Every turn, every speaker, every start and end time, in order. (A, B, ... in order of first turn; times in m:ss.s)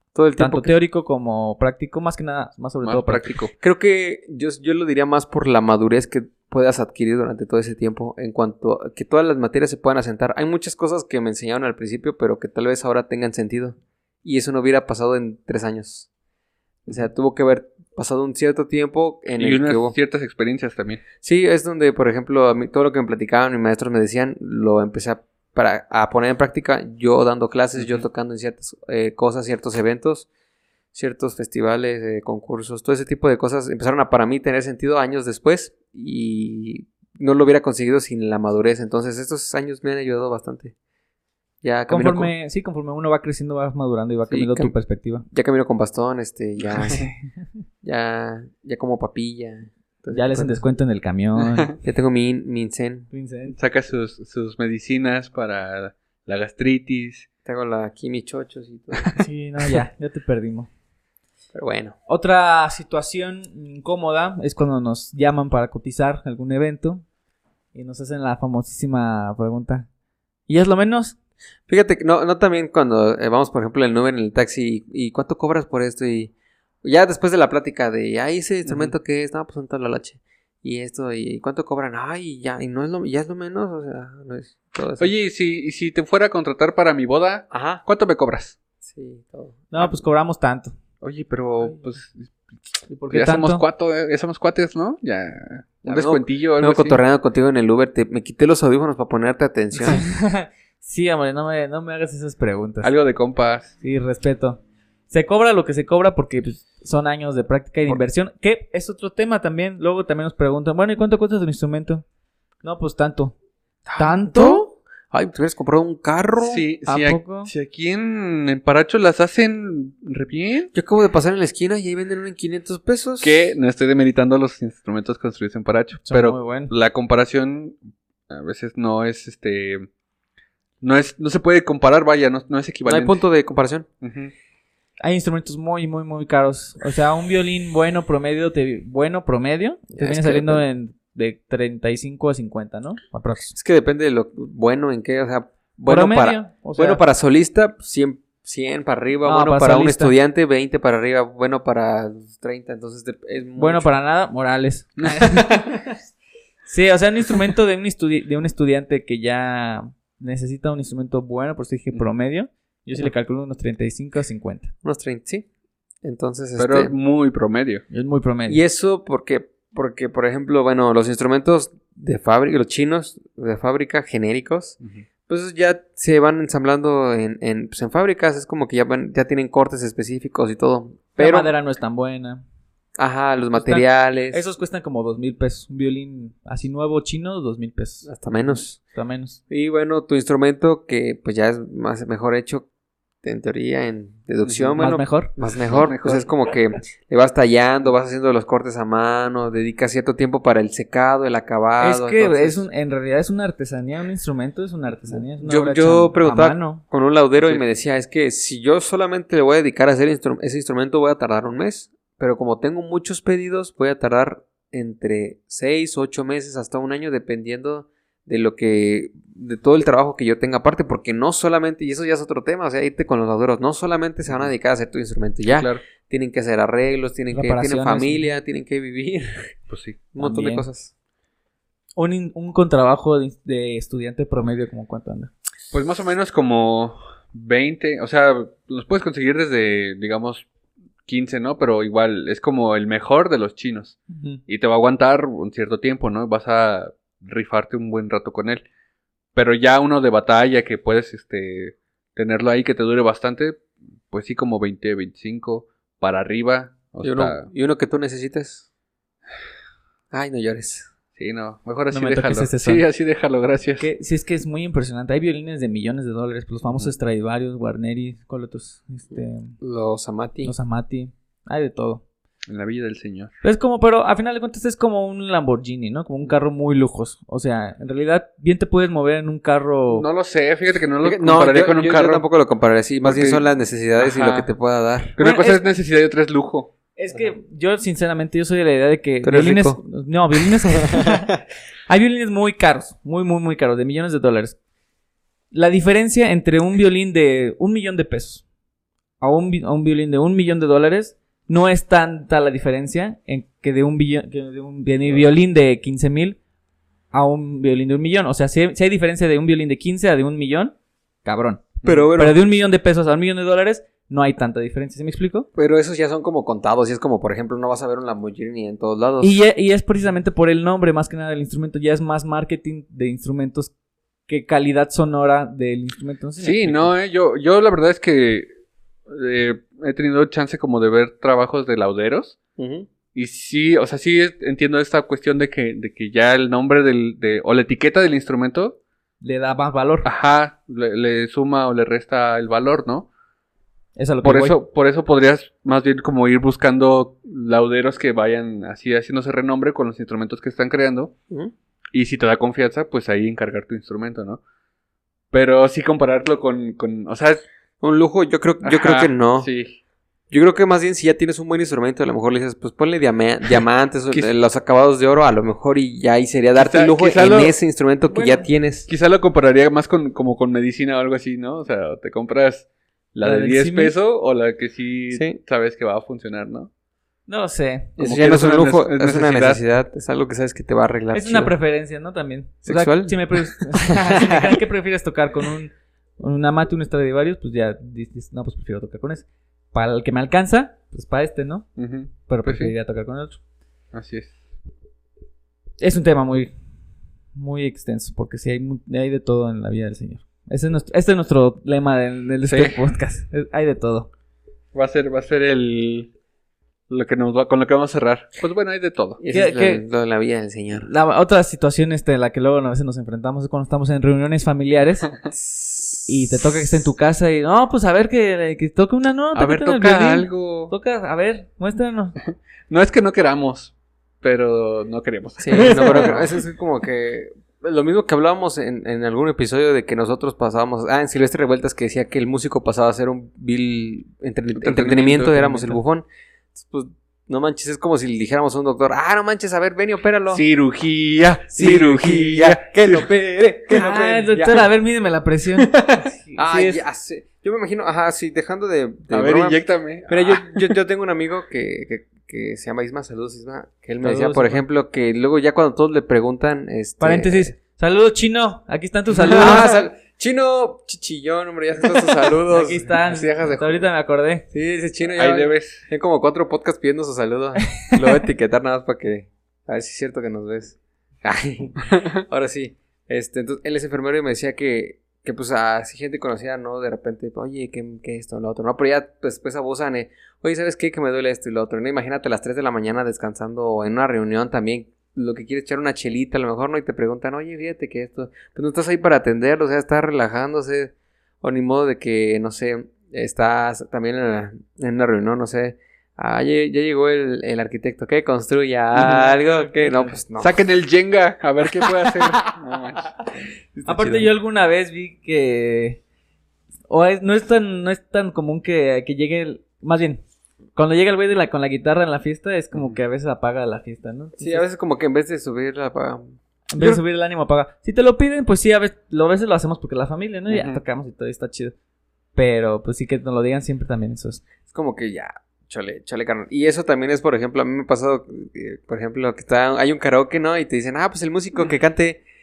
0:00.1-0:00.8 A
0:00.4-0:03.3 B
0:02.8-0:03.5 C
0:03.6-0:16.1 A
0:16.8-0:19.9 A
0:19.4-0:21.0 C
0:21.2-0:30.3 A
0:27.8-0:28.0 C
0:30.9-0:40.7 A
0:41.6-0:42.3 A
0:41.9-0:45.2 B
0:44.3-0:44.7 A
0:45.3-0:47.0 A
0:46.8-0:47.1 B
0:47.8-0:50.6 A
0:50.1-0:51.7 B
0:51.4-0:51.7 C
0:51.8-0:53.1 A
0:53.1-0:53.6 B
0:53.5-0:57.3 C
0:57.4-0:59.2 A
0:59.2-1:00.7 B
1:01.5-1:02.0 A
1:02.1-1:07.0 B
1:07.7-1:09.9 B
1:10.5-1:11.2 B
1:11.7-1:25.1 A
1:25.0-1:28.6 C
1:27.5-1:27.8 A
1:28.8-1:30.0 A
1:29.7-1:30.7 B
1:31.0-1:32.4 C
1:32.9-1:33.6 B
1:33.1-1:37.0 C
1:35.8-1:40.0 A
1:39.8-1:42.9 B
1:42.8-1:43.7 C
1:43.8-1:52.0 B
1:52.6-1:53.3 B
1:53.9-1:56.6 A
1:54.0-1:54.7 B
1:56.4-2:00.7 C
1:56.8-1:57.5 B
2:00.7-2:03.5 A
2:03.2-2:07.8 C
2:06.0-2:06.7 B
2:08.3-2:09.9 C
2:10.8-2:13.2 C
2:12.8-2:13.9 A
2:14.0-2:14.3 C
2:15.0-2:23.6 B
2:20.0-2:20.6 A
2:23.5-2:33.8 A
2:25.8-2:27.0 B
2:29.2-2:30.1 B
2:33.6-2:35.8 B
2:35.0-2:35.7 C
2:36.6-2:44.7 B
2:44.8-2:45.4 A
2:46.0-2:46.9 A
2:46.6-2:47.8 C
2:47.9-2:48.6 B
2:48.5-2:54.8 A
2:55.3-3:01.5 A
3:01.2-3:02.4 B
3:03.0-3:04.4 A
3:03.5-3:08.1 B
3:08.0-3:08.8 A
3:08.7-3:09.4 B
3:09.5-3:12.7 A
3:13.2-3:22.6 A
3:14.4-3:14.8 C
3:14.8-3:15.3 B
3:15.7-3:16.2 C
3:21.8-3:26.8 B
3:25.1-3:49.5 A
3:45.5-3:45.8 C
3:47.3-3:48.3 B
3:49.7-3:50.0 C
3:50.1-3:50.9 A
3:50.2-3:50.7 B
3:52.0-3:55.3 B
3:55.7-4:00.5 C
4:01.0-4:08.6 C
4:04.1-4:04.4 B
4:09.3-4:17.5 C
4:17.0-4:18.6 A
4:20.1-4:20.9 A
4:21.1-4:23.9 C
4:21.9-4:22.8 B
4:23.8-4:29.6 B
4:29.1-4:30.5 A
4:30.4-4:32.0 B
4:32.5-4:33.3 C
4:33.4-4:40.1 B
4:39.9-4:42.2 C
4:41.0-4:45.2 A
4:43.0-4:43.4 C
4:44.0-4:44.5 C
4:45.2-4:46.7 C
4:45.2-4:45.6 B
4:47.0-4:51.4 B
4:49.2-4:49.8 A
4:50.9-4:51.1 A
4:51.9-4:54.6 B
4:55.5-4:58.4 B
4:59.2-5:06.4 B
5:07.1-5:15.5 B
5:11.8-5:12.4 A
5:15.5-5:19.4 A
5:19.2-5:23.7 B
5:24.3-5:26.9 B
5:26.4-5:28.5 C
5:29.1-5:32.4 C
5:32.6-5:32.9 A
5:33.1-5:38.8 C
5:39.2-5:40.1 B
5:40.0-5:43.1 C
5:44.0-5:44.6 B
5:44.2-5:51.1 C
5:51.9-5:54.4 C
5:55.3-5:57.4 C
5:57.8-5:59.5 A
5:58.6-5:59.8 C
6:00.3-6:08.9 A
6:06.5-6:07.5 C
6:08.1-6:08.4 B
6:08.9-6:16.7 C
6:13.2-6:13.9 B
6:15.1-6:15.4 A
6:17.3-6:17.9 B
6:18.0-6:21.5 A
6:18.0-6:19.6 C
6:21.1-6:33.4 B
6:22.6-6:24.6 A
6:31.8-6:32.7 C
6:33.9-6:34.4 C
6:35.8-6:36.5 B
6:37.3-6:44.1 B
6:42.4-6:42.8 C
6:44.7-6:46.1 C
6:46.9-6:49.2 C
6:49.2-6:50.9 A
6:49.3-6:49.8 B
6:50.7-6:55.1 B
6:55.3-6:56.8 A
6:56.0-7:02.2 B
6:59.3-7:00.7 C
7:02.7-7:06.4 C
7:05.4-7:20.4 A
7:14.6-7:15.8 C
7:20.3-7:23.1 C
7:21.5-7:24.7 A
7:23.7-7:26.8 B
7:26.4-7:37.5 A
7:29.1-7:30.7 C
7:34.0-7:34.6 B
7:37.0-7:39.7 B
7:39.2-7:43.8 A
7:42.5-7:44.4 B
7:44.5-8:20.6 A
7:45.1-7:45.8 C
7:47.6-7:48.0 B
7:51.9-7:52.2 C
8:18.9-8:19.3 C
8:19.4-8:20.1 B
8:20.4-8:23.1 C
8:23.7-8:24.3 A
8:23.8-8:26.0 B
8:26.9-8:30.2 B
8:30.7-8:34.6 B
8:34.4-8:37.0 A
8:36.7-8:41.7 B
8:40.5-8:40.8 C
8:42.4-8:44.4 B
8:44.6-8:52.2 A